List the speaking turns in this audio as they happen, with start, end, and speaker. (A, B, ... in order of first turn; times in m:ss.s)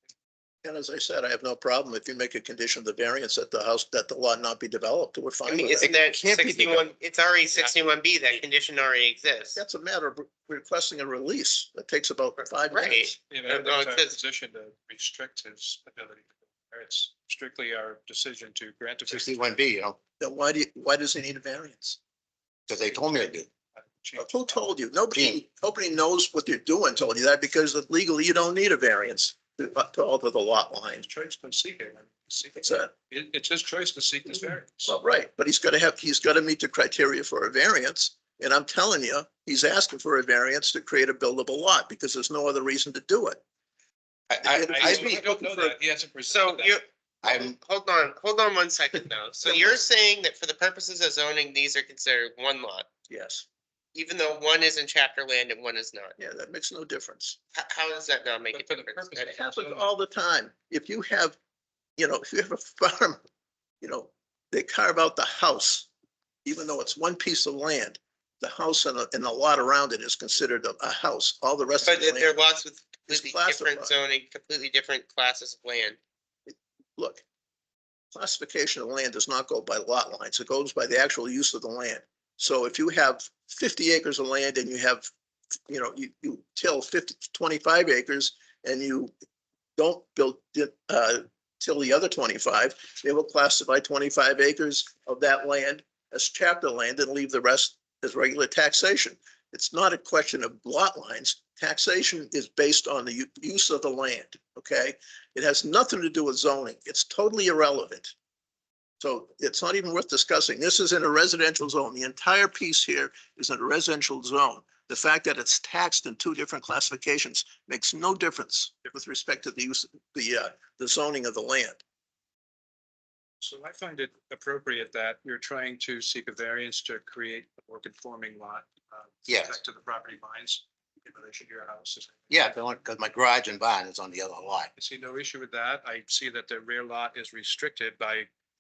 0:00.6-0:05.9 A
0:05.4-0:09.6 B
0:05.8-0:06.9 C
0:09.5-0:13.2 A
0:12.4-0:14.2 B
0:13.3-0:19.4 D
0:19.1-0:20.0 E
0:20.2-0:22.0 A
0:22.7-0:23.5 E
0:23.7-0:24.7 D
0:24.2-0:31.0 A
0:25.1-0:25.4 E
0:31.0-0:34.9 D
0:32.6-0:32.9 A
0:34.8-0:43.4 A
0:44.3-0:45.2 C
0:44.4-0:45.7 A
0:44.6-0:46.8 D
0:46.3-0:52.9 B
0:47.2-0:47.6 E
0:49.4-0:49.8 A
0:53.1-0:53.4 A
0:53.9-0:56.2 B
0:56.2-0:57.4 A
0:57.5-0:59.3 B
0:58.5-0:59.9 D
0:59.3-1:01.4 A
1:02.0-1:03.2 A
1:03.8-1:05.9 A
1:06.4-1:12.4 A
1:11.8-1:16.0 B
1:13.1-1:13.9 A
1:16.5-1:17.2 A
1:18.1-1:25.1 A
1:25.7-1:29.1 A
1:29.8-1:48.1 A
1:49.0-2:01.8 A
2:03.4-2:12.4 D
2:09.3-2:09.6 E
2:12.3-2:14.7 E
2:14.8-2:18.3 D